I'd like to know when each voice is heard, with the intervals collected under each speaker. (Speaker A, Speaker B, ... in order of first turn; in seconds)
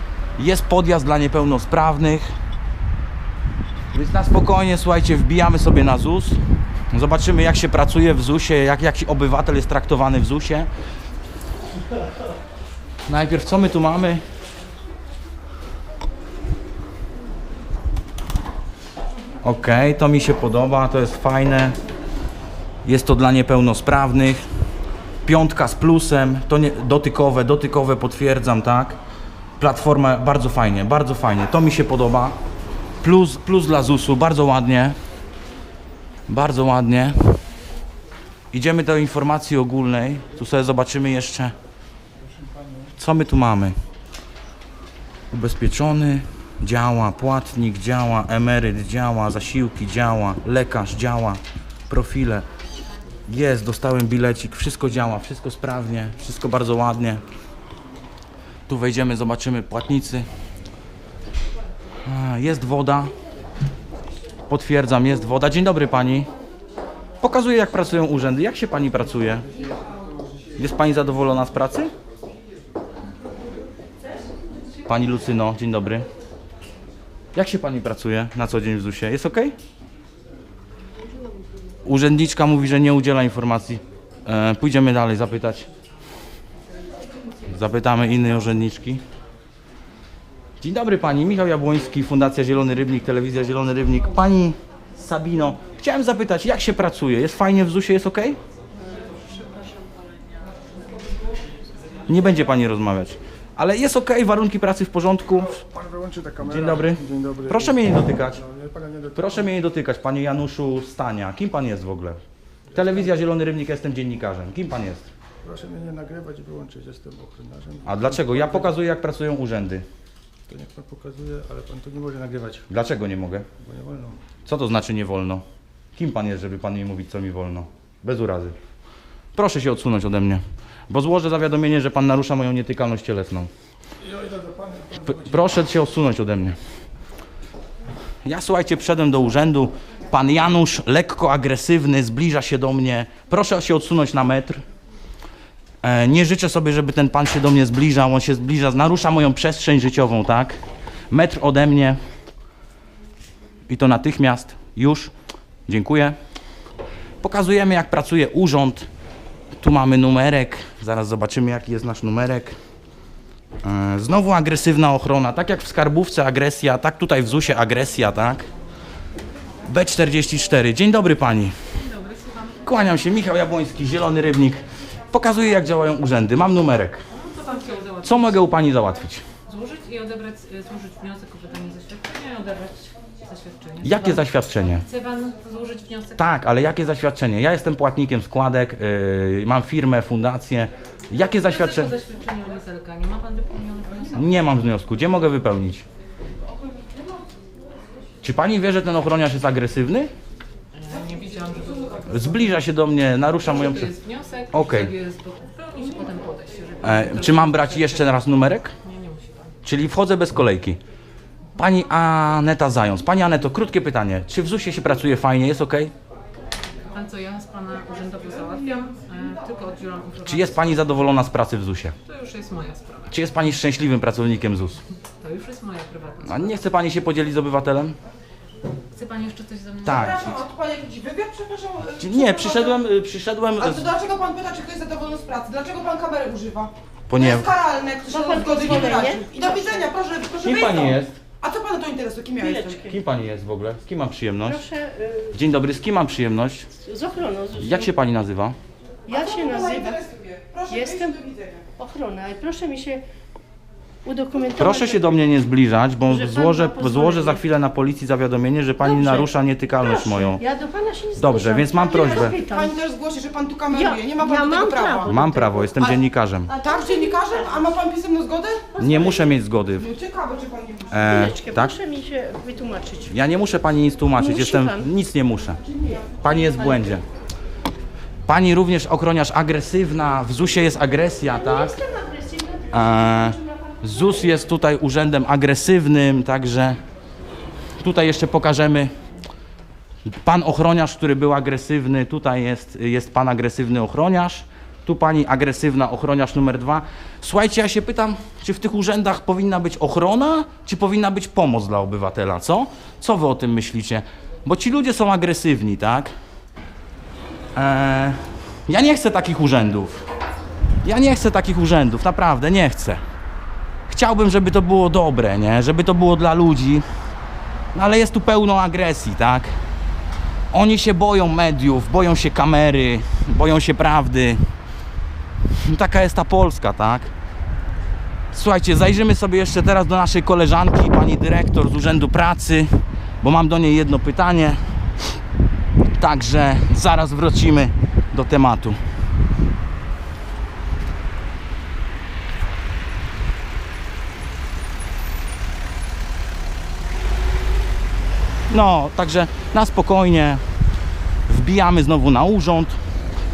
Speaker A: 0.4-2.3, 3.9-10.7, 13.1-14.2, 19.4-21.8, 22.8-24.4, 25.2-29.0, 29.6-32.4, 33.0-35.0, 36.3-37.4, 38.5-41.5, 43.0-43.8, 45.3-52.5, 53.3-57.2, 58.7-60.3, 62.0-63.1, 64.5-66.3, 67.2-69.4, 70.6-71.9, 74.9-76.1, 77.3-79.5, 81.8-85.7, 87.5-89.0, 90.6-98.4, 102.1-105.6, 106.4-108.4, 109.2-112.2, 112.7-115.1, 117.8-119.8, 122.7-123.5, 124.5-125.4, 126.0-128.6, 129.3-133.5, 135.1-136.6, 138.2-144.6, 145.8-150.6, 151.1-152.0, 153.7-155.1, 155.7-156.2, 157.2-158.9, 159.6-162.6, 163.6-168.5, 169.7-171.6, 172.6-177.0, 178.0-179.2, 183.8-184.9, 186.2-191.9, 194.1-195.8, 198.2-200.1, 202.1-203.9, 204.5-204.9, 206.8-208.7, 209.6-210.8, 211.6-215.9, 220.3-222.0, 223.1-224.8, 226.2-228.0, 229.8-230.3, 232.0-233.9, 237.1-237.5, 240.4-241.2, 242.8-244.7, 245.3-246.7, 247.6-248.6, 254.5-260.4, 261.2-262.4, 265.0-266.5, 268.8-269.9, 270.9-271.8, 273.1-275.6, 276.2-277.1, 278.3-281.8, 282.7-286.8, 287.8-288.9, 290.1-306.1, 307.6-310.0, 310.8-313.0, 313.9-316.9, 317.7-319.6, 320.5-324.4, 325.6-327.1, 328.3-334.8, 336.0-338.8, 348.5-350.4, 351.3-352.8
Speaker B: 105.6-109.3, 115.4-118.7, 120.5-122.7, 123.6-124.2, 134.0-135.4
Speaker C: 171.8-172.6, 177.1-178.3, 179.4-184.2, 184.8-186.3, 191.4-194.3, 200.7-202.5, 203.4-208.1, 208.8-209.5, 216.8-220.9, 222.1-223.1, 225.2-226.6, 228.9-230.2
Speaker D: 229.9-232.8, 233.6-242.9, 249.1-251.7, 261.6-271.2, 275.8-276.5
Speaker E: 238.2-239.3, 242.5-242.9, 244.5-245.3, 246.8-247.9, 249.4-249.9, 250.7-251.1, 251.8-253.0, 254.0-255.1, 256.1-257.4, 258.9-259.2, 259.9-261.7, 262.3-262.6, 263.8-265.6, 271.2-273.1, 274.2-274.8, 281.4-282.7